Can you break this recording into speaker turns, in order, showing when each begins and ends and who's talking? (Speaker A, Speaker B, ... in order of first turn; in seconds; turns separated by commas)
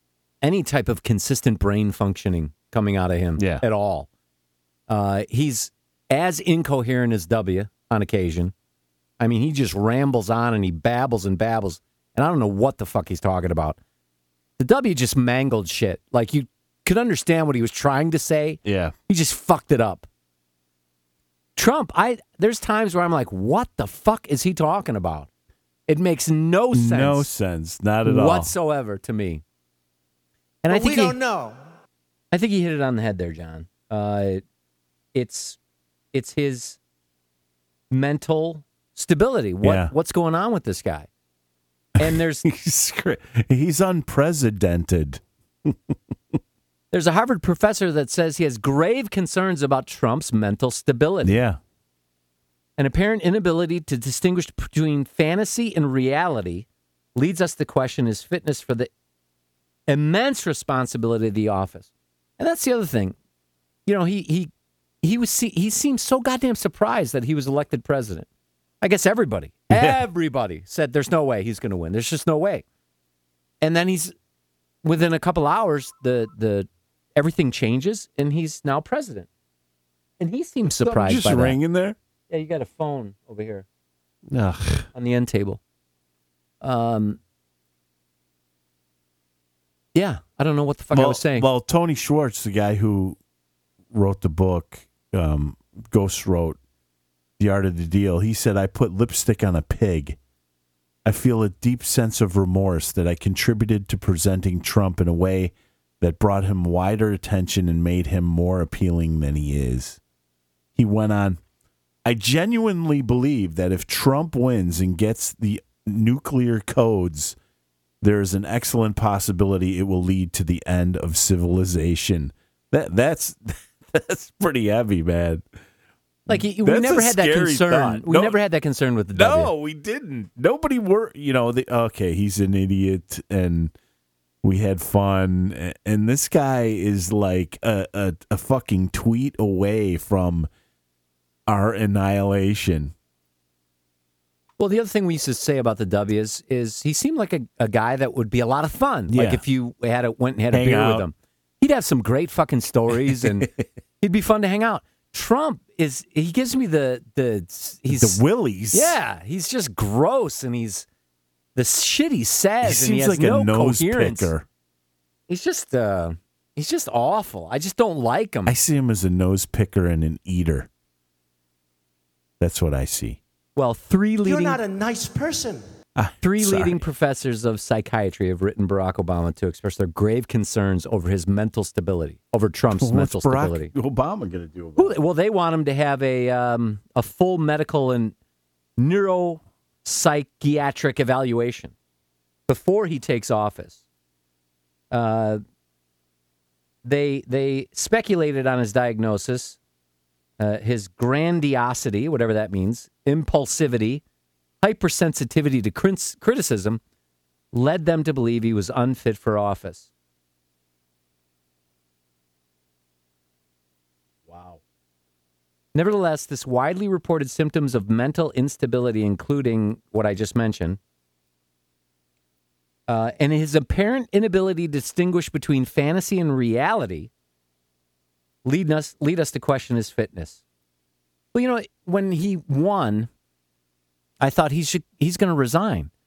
Speaker A: 0.4-4.1, Speaker B: 3.4-3.6, Speaker A: 4.9-8.5, Speaker A: 9.2-13.8, Speaker A: 14.6-20.1, Speaker B: 18.6-18.9, Speaker A: 21.6-25.3, Speaker A: 25.9-27.3, Speaker B: 26.7-28.5, Speaker A: 28.1-29.4, Speaker A: 30.6-31.2, Speaker C: 30.7-31.6, Speaker A: 32.3-34.4, Speaker A: 35.1-35.6, Speaker A: 36.1-36.8, Speaker A: 37.9-41.1, Speaker B: 39.6-39.9, Speaker A: 42.0-42.5, Speaker B: 42.0-45.8, Speaker A: 46.9-51.4, Speaker B: 51.2-51.6, Speaker A: 52.8-58.9, Speaker A: 59.9-63.2, Speaker A: 63.9-64.5, Speaker A: 65.0-68.3, Speaker A: 68.8-72.7, Speaker B: 69.7-70.0, Speaker A: 73.6-74.1, Speaker A: 74.8-79.3, Speaker A: 80.2-81.6, Speaker B: 80.8-82.0, Speaker A: 82.3-83.7, Speaker B: 84.3-84.8, Speaker A: 84.9-85.6, Speaker A: 86.6-87.2, Speaker A: 90.0-91.5, Speaker B: 90.9-93.2, Speaker B: 93.9-96.6, Speaker B: 97.4-100.2, Speaker B: 101.0-110.0, Speaker B: 110.8-111.4, Speaker B: 112.0-117.4, Speaker B: 118.0-125.4, Speaker B: 126.3-128.4, Speaker A: 126.3-129.5, Speaker B: 129.1-133.7, Speaker B: 134.4-140.5, Speaker B: 141.5-142.9, Speaker A: 144.6-153.5, Speaker B: 149.1-149.4, Speaker B: 150.5-151.1, Speaker A: 154.0-158.2, Speaker B: 157.9-159.0, Speaker A: 158.7-160.9, Speaker A: 161.6-164.3, Speaker B: 162.6-164.4, Speaker A: 165.3-168.5, Speaker B: 168.5-170.7, Speaker B: 172.4-173.2, Speaker A: 173.6-174.6, Speaker C: 174.2-175.7, Speaker B: 176.0-176.8, Speaker A: 176.2-183.7, Speaker B: 182.8-185.0, Speaker A: 184.8-188.2, Speaker A: 188.8-191.7, Speaker A: 192.5-193.8, Speaker A: 194.9-195.4, Speaker A: 196.8-199.6, Speaker A: 200.4-204.0, Speaker A: 204.6-206.8, Speaker A: 207.5-209.9, Speaker B: 214.3-214.6, Speaker A: 215.8-220.8, Speaker A: 222.9-227.1, Speaker A: 228.4-230.4, Speaker A: 231.3-233.1, Speaker A: 234.2-235.9